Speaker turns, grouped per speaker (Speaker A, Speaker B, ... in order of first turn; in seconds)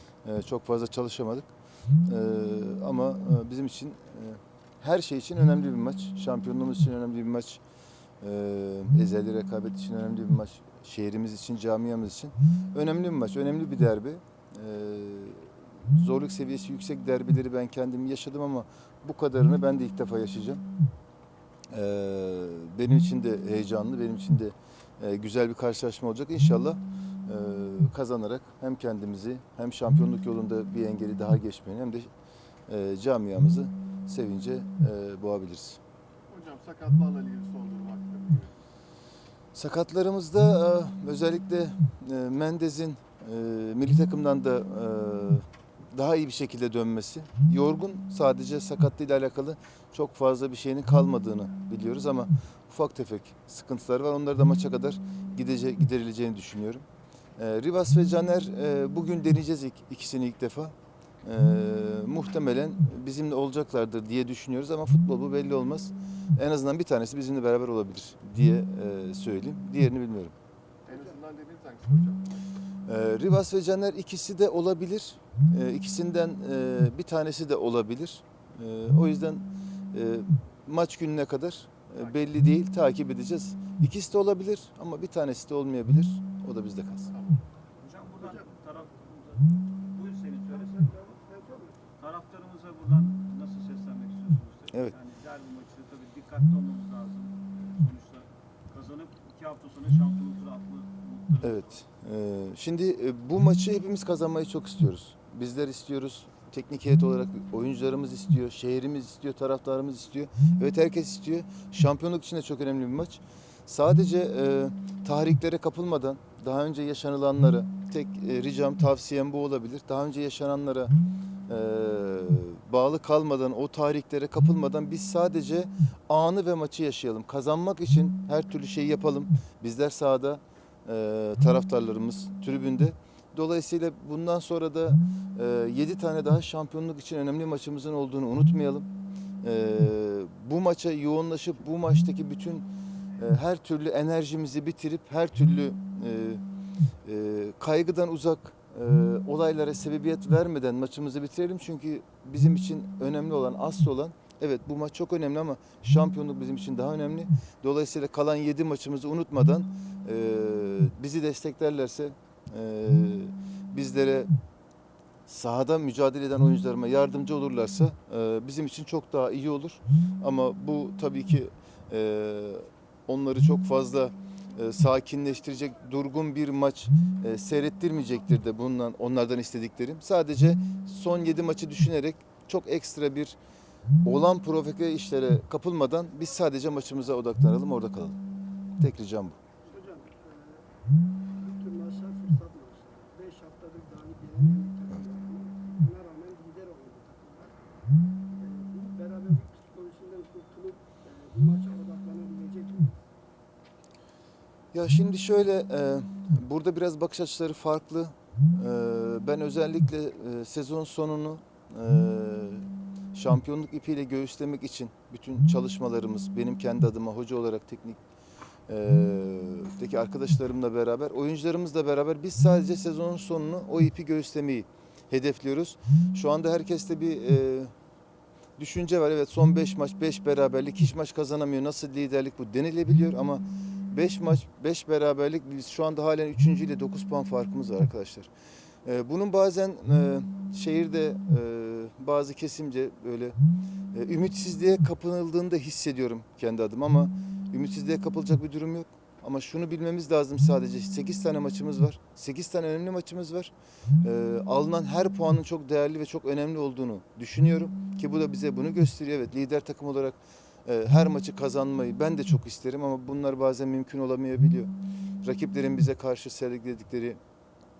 Speaker A: 0.2-1.5, 2.0-7.6, 8.2-20.6, 21.7-32.1, 32.7-35.8, 39.5-56.8, 57.4-70.3, 72.8-87.1, 101.4-120.9, 121.5-138.9, 139.4-146.4, 147.0-164.3, 165.3-183.4, 184.0-188.2, 188.8-189.4, 204.7-218.0, 218.7-227.7, 228.6-238.3, 238.8-243.4, 243.9-264.7, 265.2-267.2
Speaker B: 36.3-38.5, 70.8-72.3, 87.1-87.4
Speaker C: 87.8-90.9, 92.0-101.8
Speaker D: 90.5-91.8, 189.6-190.6, 191.3-197.6, 198.3-203.0